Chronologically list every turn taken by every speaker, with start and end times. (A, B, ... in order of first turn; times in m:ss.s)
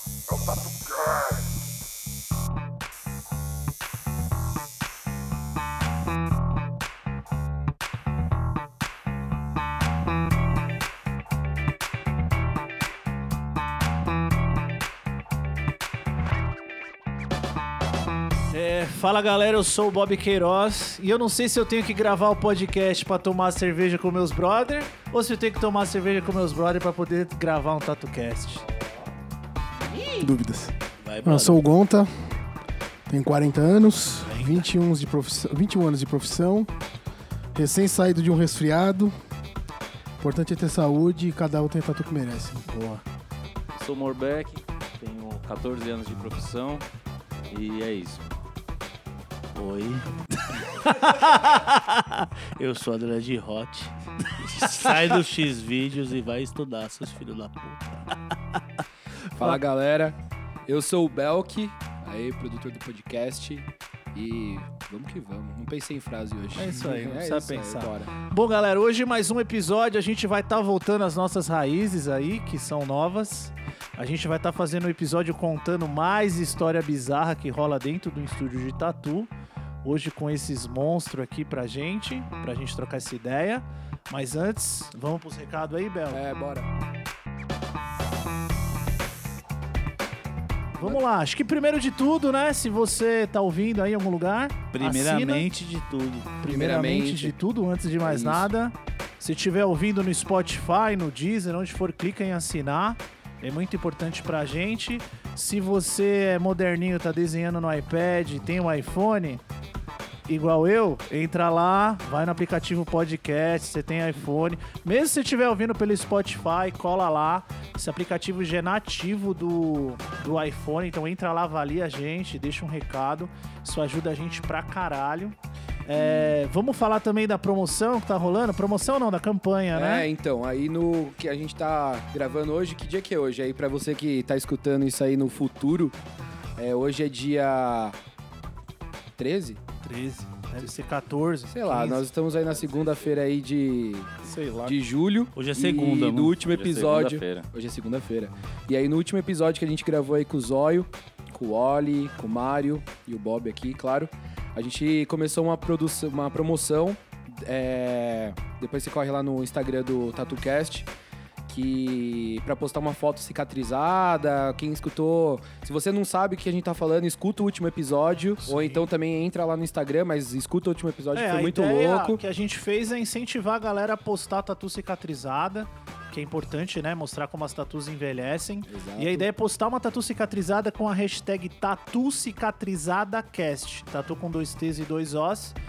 0:18.5-0:28.6 A
0:30.2-0:32.1 B
0:31.0-0:31.6 C
0:33.1-0:36.7 B
0:34.3-0:34.6 C
0:37.6-0:39.1 B
0:40.2-0:43.0 B
0:43.7-0:46.9 D
0:47.5-0:48.3 D
0:49.5-0:50.0 C
0:50.7-0:51.7 C
0:50.8-0:51.5 A
0:52.6-0:58.1 C
0:59.4-1:08.1 E
1:06.6-1:19.3 A
1:19.8-1:26.2 A
1:26.1-1:26.7 E
1:30.8-1:35.5 A
1:34.7-1:36.4 C
1:36.4-1:49.4 A
1:36.5-1:37.3 E
1:38.0-1:38.5 E
1:50.3-2:10.1 A
2:06.0-2:06.3 E
2:09.7-2:16.0 E
2:16.6-2:18.0 E
2:19.2-2:19.6 E
2:19.8-2:22.0 A
2:21.5-2:24.1 E
2:24.2-2:24.8 A
2:24.7-2:40.9 E
2:25.4-2:26.4 C
2:26.4-2:27.5 D
2:41.5-2:52.2 E
2:48.5-2:48.8 A
2:51.1-3:05.6 A
2:58.7-2:59.3 E